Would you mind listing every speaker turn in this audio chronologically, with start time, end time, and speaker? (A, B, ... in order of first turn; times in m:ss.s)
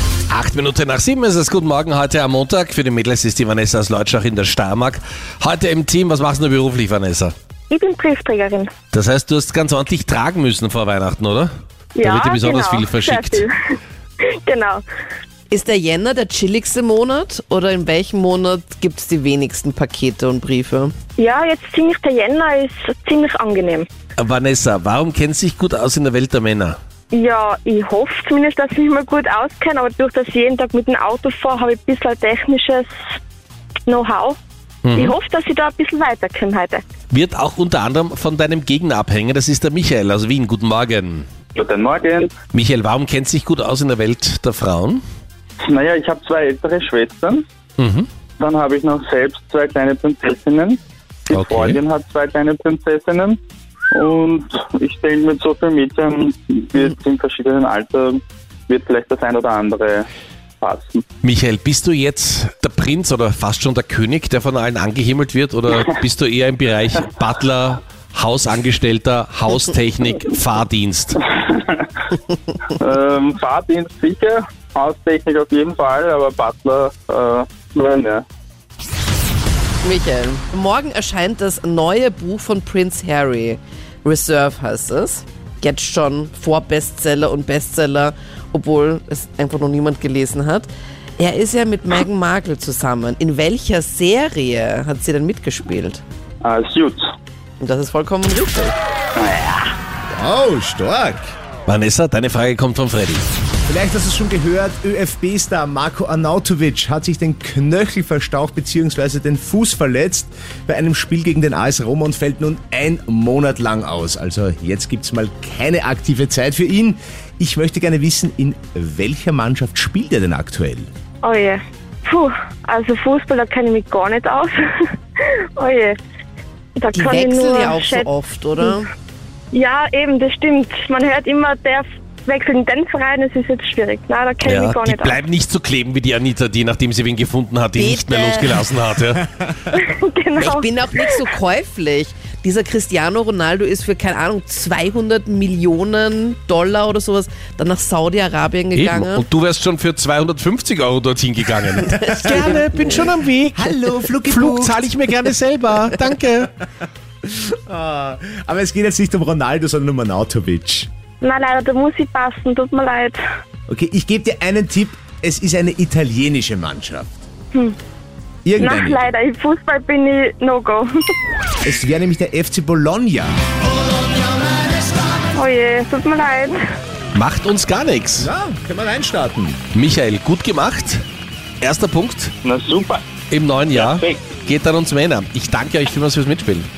0:00.3-0:07.3 A
0:07.7-0:08.7 B
0:08.9-0:11.5 A
0:12.0-0:14.8 B
0:12.0-0:13.4 A
0:15.5-0:20.9 C
0:21.2-0:23.9 B
0:24.2-0:26.8 A
0:27.1-0:32.9 B
0:33.9-0:34.4 B
0:34.8-0:35.2 A
0:34.9-0:36.8 B
0:37.1-0:41.2 A
0:41.5-0:42.3 D
0:42.5-0:45.0 A
0:45.6-0:47.4 D
0:47.8-0:48.1 A
0:48.4-0:53.4 D
0:51.3-0:51.8 A
0:53.9-1:00.1 D
1:00.6-1:01.0 D
1:01.2-1:11.2 A
1:11.2-1:11.9 D
1:12.8-1:18.2 D
1:19.8-1:36.0 C
1:36.4-1:37.0 D
1:37.6-1:38.8 C
1:39.1-1:39.7 D
1:40.1-1:41.3 E
1:41.7-1:43.2 A
1:43.6-2:00.9 E
2:01.2-2:06.0 B
2:06.8-2:08.1 B
2:06.9-2:08.9 C
2:09.5-2:15.2 B
2:14.4-2:19.3 A
2:17.8-2:18.8 C
2:19.7-2:20.6 B
2:20.4-2:29.2 C
2:28.7-2:36.5 A
2:31.9-2:33.0 C
2:32.1-2:32.5 E
2:33.5-2:34.8 E
2:37.2-2:40.9 E
2:41.2-2:43.2 B
2:43.7-2:47.2 E
2:48.4-2:49.0 E
2:48.6-2:50.9 B
2:51.6-2:53.3 E
2:55.3-2:56.6 B
2:57.1-2:58.3 A
2:58.2-2:59.6 E
2:59.7-3:01.0 A
3:01.6-3:02.3 A
3:02.4-3:03.0 D
3:03.3-3:06.7 A
3:03.7-3:04.3 D